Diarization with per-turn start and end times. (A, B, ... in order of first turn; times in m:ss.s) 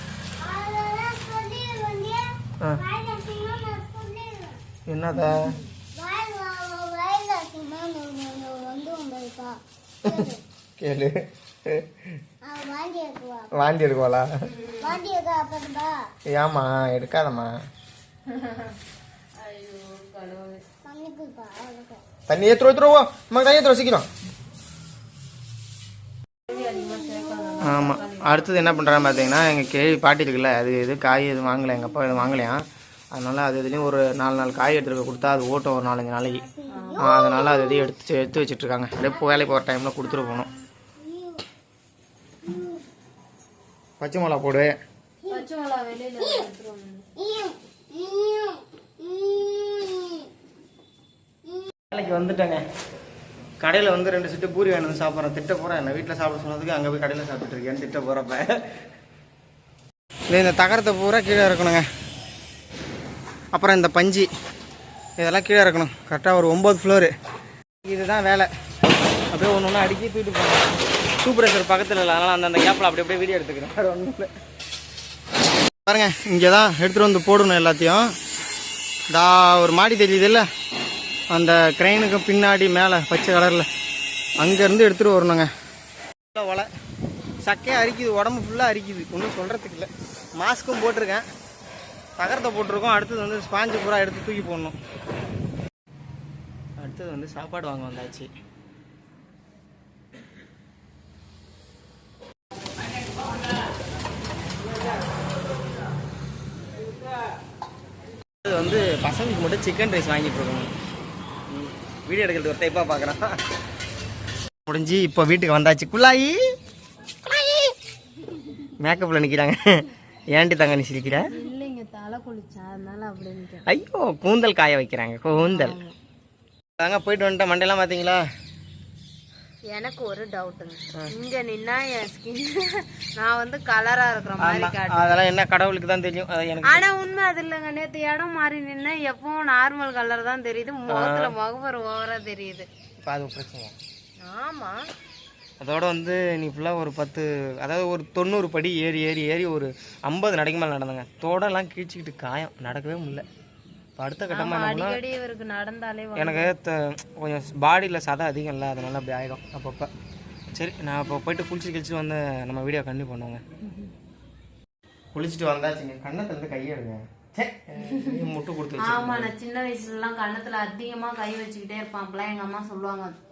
0:00.4-0:04.6 A
0:04.9-0:05.5 B
0:05.3-0:05.6 C
0:06.0-0:10.4 A
0:10.8-0:12.2 B
0:12.4-0:13.7 A
0:13.5-0:14.3 B
0:14.6-0:14.9 C
0:14.8-0:16.1 A
0:16.3-0:17.5 B
0:18.3-0:18.8 C
0:19.4-0:20.6 C
0:20.8-0:22.0 A
0:22.3-0:24.1 B
0:26.5-0:28.8 C
0:27.1-0:27.6 A
0:27.6-0:36.5 B
0:28.9-0:29.5 A
0:36.4-0:37.9 A
0:36.7-0:37.1 C
0:37.0-0:40.5 B
0:39.1-0:41.5 A
0:42.4-0:42.8 A
0:44.0-0:44.8 B
0:45.3-0:47.1 C
0:47.2-0:50.3 A
0:51.9-0:52.6 B
0:53.6-0:58.7 B
1:00.3-1:01.9 B
1:03.5-1:04.3 B
1:05.2-1:07.1 B
1:07.8-1:08.5 B
1:09.3-1:14.3 B
1:15.9-1:18.1 B
1:19.1-1:20.5 B
1:21.3-1:23.7 B
1:24.4-1:25.5 B
1:26.3-1:26.7 B
1:27.4-1:31.2 B
1:32.2-1:34.8 B
1:36.8-1:38.3 B
1:48.4-1:50.7 B
1:51.5-1:53.4 B
1:54.7-1:56.4 B
1:57.3-1:57.7 B
1:58.8-2:01.2 B
2:01.3-2:03.7 C
2:03.7-2:05.8 B
2:05.4-2:06.0 C
2:06.8-2:08.2 B
2:09.7-2:15.2 C
2:14.4-2:16.9 B
2:16.6-2:22.7 C
2:20.9-2:21.3 B
2:23.0-2:23.8 B
2:24.2-2:24.8 C
2:25.6-2:33.2 B
2:34.0-2:35.0 B
2:34.3-2:36.5 C
2:36.2-2:39.9 B
2:40.5-2:43.4 B
2:45.1-2:49.3 B
2:47.8-2:48.2 C
2:48.8-2:53.2 C